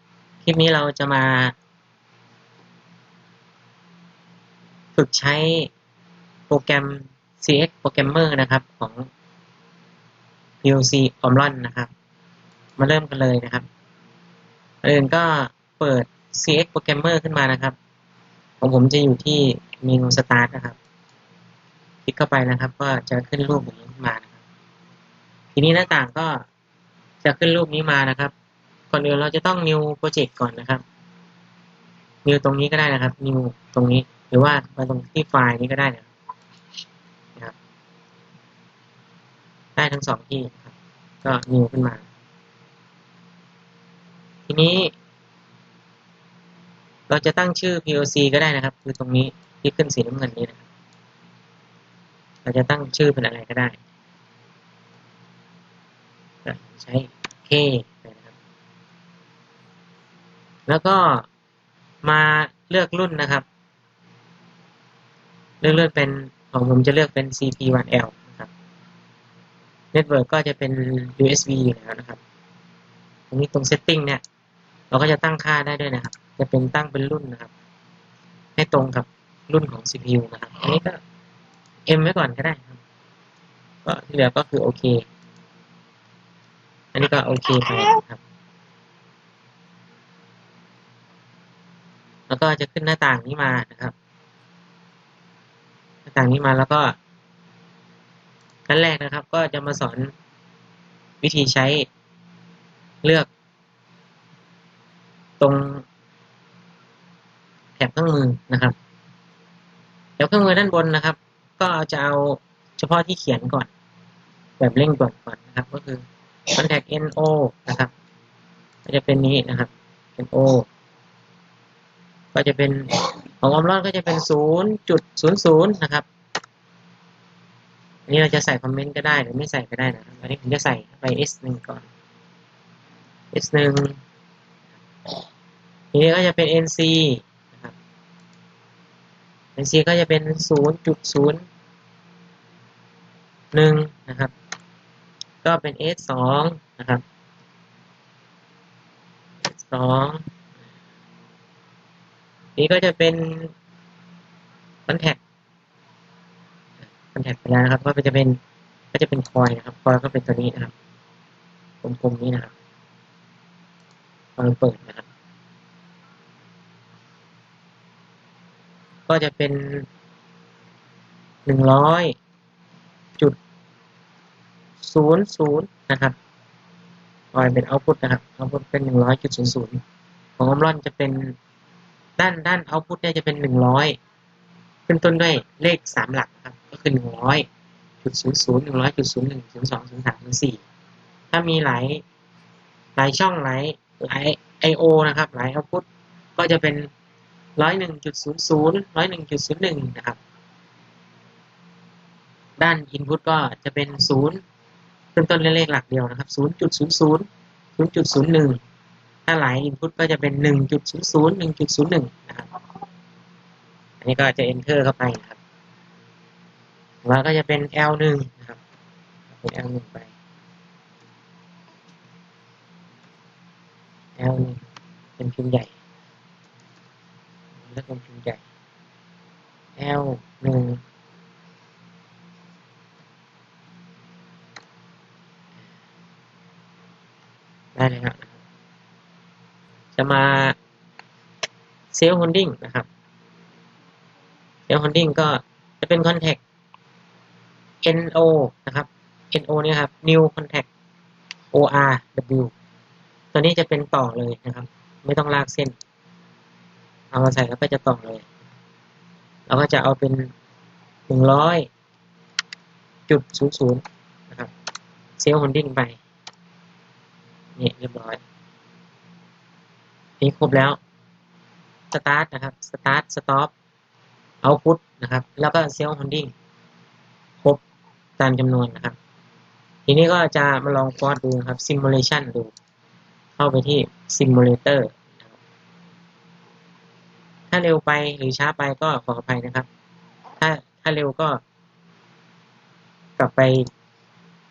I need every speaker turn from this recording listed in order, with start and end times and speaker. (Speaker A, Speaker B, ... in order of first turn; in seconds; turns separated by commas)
Speaker A: 0.4-1.6, Speaker A: 5.0-5.7, Speaker A: 6.5-9.1, Speaker A: 10.6-11.9, Speaker A: 12.8-13.7, Speaker A: 14.8-17.8, Speaker A: 18.6-20.8, Speaker A: 22.1-24.3, Speaker A: 25.6-26.5, Speaker A: 27.2-28.3, Speaker A: 28.9-30.8, Speaker A: 32.2-36.1, Speaker A: 39.8-40.7, Speaker A: 41.2-42.0, Speaker A: 44.5-44.9, Speaker A: 47.1-50.6, Speaker A: 52.5-53.8, Speaker A: 56.5-58.3, Speaker A: 60.7-61.3, Speaker A: 62.0-63.5, Speaker A: 65.6-68.5, Speaker A: 69.9-72.2, Speaker A: 73.3-74.2, Speaker A: 74.9-77.5, Speaker A: 78.6-81.0, Speaker A: 81.9-82.8, Speaker A: 83.8-85.0, Speaker A: 86.9-88.2, Speaker A: 92.3-94.0, Speaker A: 96.1-97.0, Speaker A: 98.7-100.1, Speaker A: 101.2-101.9, Speaker A: 103.0-103.3, Speaker A: 105.4-105.9, Speaker A: 107.8-108.8, Speaker A: 110.2-113.7, Speaker A: 114.6-117.9, Speaker A: 118.8-120.7, Speaker A: 122.3-126.1, Speaker A: 128.1-131.9, Speaker A: 133.3-134.0, Speaker A: 135.9-137.7, Speaker A: 139.6-141.4, Speaker A: 143.5-144.3, Speaker A: 145.4-147.0, Speaker A: 149.4-150.2, Speaker A: 152.6-153.5, Speaker A: 154.9-155.2, Speaker A: 157.1-158.4, Speaker A: 158.9-160.7, Speaker A: 161.8-162.5, Speaker A: 164.4-165.1, Speaker A: 169.1-169.9, Speaker A: 171.5-172.2, Speaker A: 174.8-176.2, Speaker A: 177.3-179.8, Speaker A: 180.4-181.4, Speaker A: 182.2-184.0, Speaker A: 184.9-187.5, Speaker A: 188.0-190.6, Speaker A: 191.3-192.0, Speaker A: 193.0-195.9, Speaker A: 196.4-196.9, Speaker A: 197.6-200.2, Speaker A: 202.6-204.4, Speaker A: 205.2-207.3, Speaker A: 207.8-208.6, Speaker A: 209.3-212.5, Speaker A: 214.0-215.4, Speaker A: 217.0-218.6, Speaker A: 219.3-220.1, Speaker A: 224.2-224.6, Speaker A: 225.2-225.7, Speaker A: 227.6-228.4, Speaker A: 229.8-230.8, Speaker A: 237.8-238.3, Speaker A: 240.0-240.6, Speaker A: 241.9-242.9, Speaker A: 244.7-246.4, Speaker A: 247.8-250.7, Speaker A: 251.5-252.5, Speaker A: 253.3-255.8, Speaker A: 257.1-258.2, Speaker A: 259.5-260.3, Speaker A: 261.1-261.7, Speaker A: 263.1-264.5, Speaker A: 265.2-266.0, Speaker A: 267.6-268.2, Speaker A: 270.2-270.8, Speaker A: 271.9-273.5, Speaker A: 274.4-276.3, Speaker A: 278.2-279.0, Speaker A: 279.9-282.5, Speaker A: 283.4-285.2, Speaker A: 287.5-289.7, Speaker A: 290.4-291.4, Speaker A: 293.2-293.7